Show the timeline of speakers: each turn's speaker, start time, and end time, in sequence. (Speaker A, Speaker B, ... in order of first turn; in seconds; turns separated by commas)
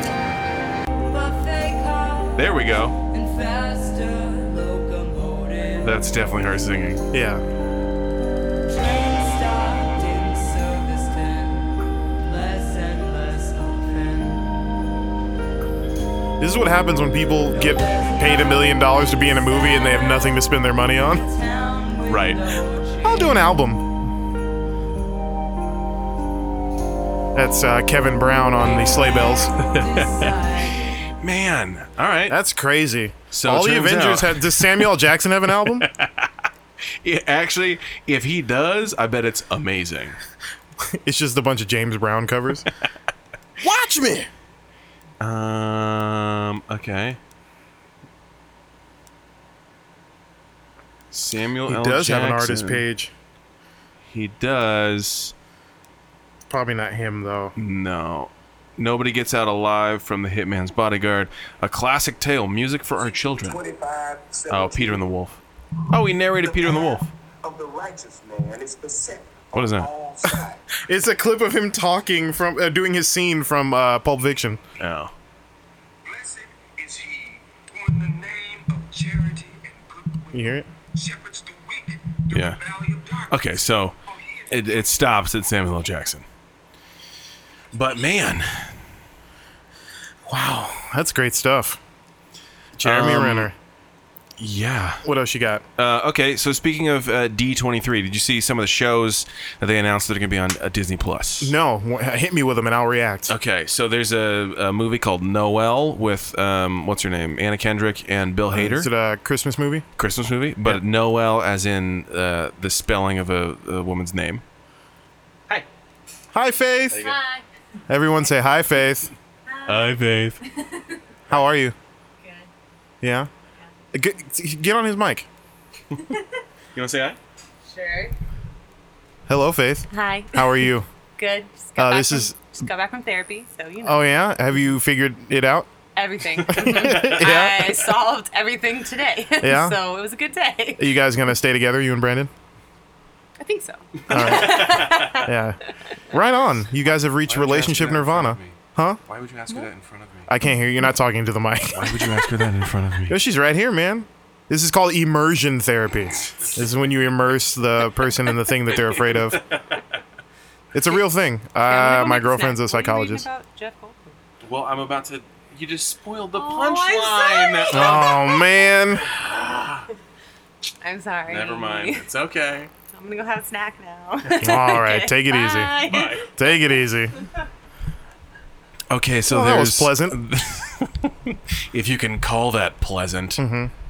Speaker A: 1.1-6.1, Speaker B: 2.4-2.9, Speaker B: 5.8-7.0, Speaker C: 7.1-7.4, Speaker A: 8.7-14.4, Speaker C: 16.4-21.2, Speaker A: 17.5-23.4, Speaker B: 22.1-22.4, Speaker C: 23.0-23.9, Speaker C: 27.3-29.5, Speaker A: 28.6-31.0, Speaker B: 29.6-30.3, Speaker B: 31.0-32.4, Speaker C: 32.3-35.9, Speaker B: 33.3-34.9, Speaker B: 35.7-36.5, Speaker B: 37.0-40.2, Speaker C: 40.9-42.7, Speaker C: 43.6-44.3, Speaker B: 45.2-47.2, Speaker B: 51.1-52.8, Speaker C: 51.7-53.1, Speaker B: 54.1-55.3, Speaker C: 56.5-57.5, Speaker B: 57.5-63.6, Speaker D: 62.9-65.0, Speaker B: 64.5-67.1, Speaker D: 66.2-70.6, Speaker B: 69.5-69.9, Speaker C: 70.2-74.6, Speaker B: 74.8-75.1, Speaker D: 76.0-83.4, Speaker C: 80.3-80.7, Speaker B: 82.3-82.6, Speaker B: 83.3-84.0, Speaker D: 84.1-84.8, Speaker B: 84.5-86.2, Speaker B: 87.7-88.8, Speaker C: 90.3-91.8, Speaker C: 92.8-93.5, Speaker B: 92.8-93.5, Speaker B: 94.4-95.0, Speaker C: 95.0-95.6, Speaker B: 95.8-101.5, Speaker C: 101.4-103.3, Speaker B: 103.3-108.9, Speaker C: 108.5-109.8, Speaker B: 110.0-114.4, Speaker C: 116.3-117.1, Speaker B: 116.9-117.2, Speaker A: 117.0-117.4, Speaker C: 117.9-119.1, Speaker A: 119.5-119.9, Speaker B: 119.7-120.4, Speaker A: 120.4-121.0, Speaker C: 121.3-121.7, Speaker A: 122.2-122.5, Speaker C: 123.0-123.3, Speaker C: 123.9-125.3, Speaker A: 126.0-126.2, Speaker B: 126.7-127.2, Speaker A: 127.7-128.2, Speaker C: 129.3-130.9, Speaker A: 129.9-134.1, Speaker C: 131.8-132.3, Speaker C: 133.8-135.7, Speaker A: 135.9-140.9, Speaker C: 136.5-137.8, Speaker B: 136.6-137.2, Speaker C: 139.4-139.8, Speaker C: 140.8-142.3, Speaker A: 143.4-145.3, Speaker B: 144.1-145.2, Speaker C: 144.1-149.0, Speaker B: 147.2-150.3, Speaker C: 150.3-152.2, Speaker B: 151.7-153.2, Speaker C: 153.1-159.4, Speaker B: 159.2-159.8, Speaker C: 160.7-163.2, Speaker A: 161.6-164.2, Speaker B: 164.4-169.9, Speaker A: 166.3-168.5, Speaker C: 167.7-169.0, Speaker A: 170.8-172.1, Speaker B: 171.3-172.7, Speaker A: 172.9-176.4, Speaker B: 174.2-174.6, Speaker C: 174.4-177.2, Speaker B: 175.9-176.3, Speaker B: 178.9-183.4, Speaker C: 179.3-180.2, Speaker C: 183.4-183.7